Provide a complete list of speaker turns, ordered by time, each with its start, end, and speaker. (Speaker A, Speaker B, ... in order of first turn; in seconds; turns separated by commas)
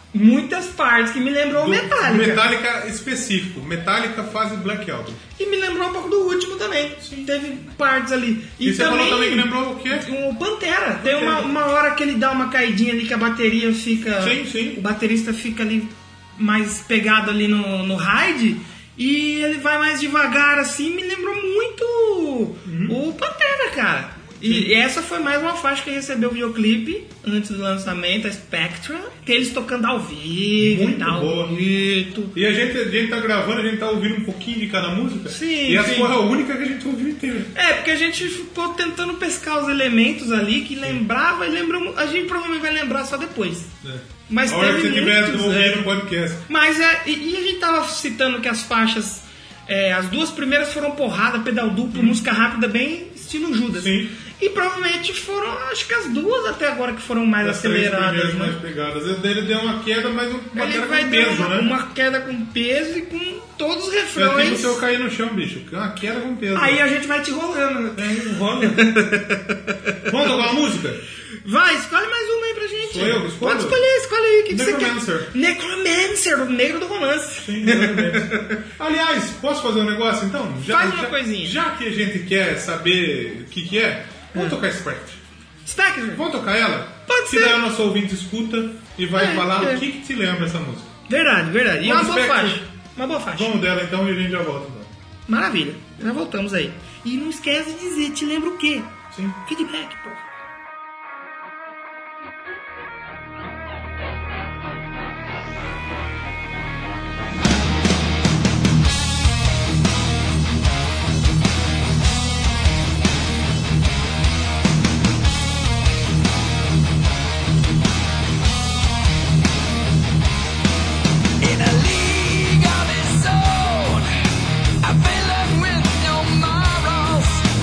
Speaker A: 0.1-2.5, Speaker B: 1.5-5.2, Speaker A: 5.4-32.4, Speaker B: 7.0-7.3, Speaker B: 8.6-10.1, Speaker B: 11.0-11.5, Speaker B: 14.2-14.8, Speaker B: 22.6-23.0, Speaker B: 24.4-24.7, Speaker B: 30.6-31.5, Speaker B: 32.3-37.5, Speaker A: 35.3-36.1, Speaker A: 37.5-43.7, Speaker B: 43.8-46.4, Speaker A: 44.3-45.9, Speaker A: 46.5-58.6, Speaker B: 51.9-52.2, Speaker B: 53.7-54.1, Speaker B: 57.4-61.7, Speaker A: 60.5-64.8, Speaker B: 64.1-66.8, Speaker A: 66.5-70.4, Speaker B: 68.0-69.1, Speaker B: 70.0-71.0, Speaker A: 71.4-78.6, Speaker B: 72.8-73.8, Speaker B: 74.5-75.3, Speaker B: 77.4-85.2, Speaker A: 80.7-81.6, Speaker A: 85.7-86.2, Speaker B: 86.1-90.9, Speaker A: 87.1-87.6, Speaker A: 89.1-89.8, Speaker A: 91.1-93.6, Speaker B: 91.8-92.6, Speaker B: 93.3-94.9, Speaker A: 95.3-100.2, Speaker B: 99.1-99.4, Speaker C: 121.4-124.1, Speaker C: 124.8-127.4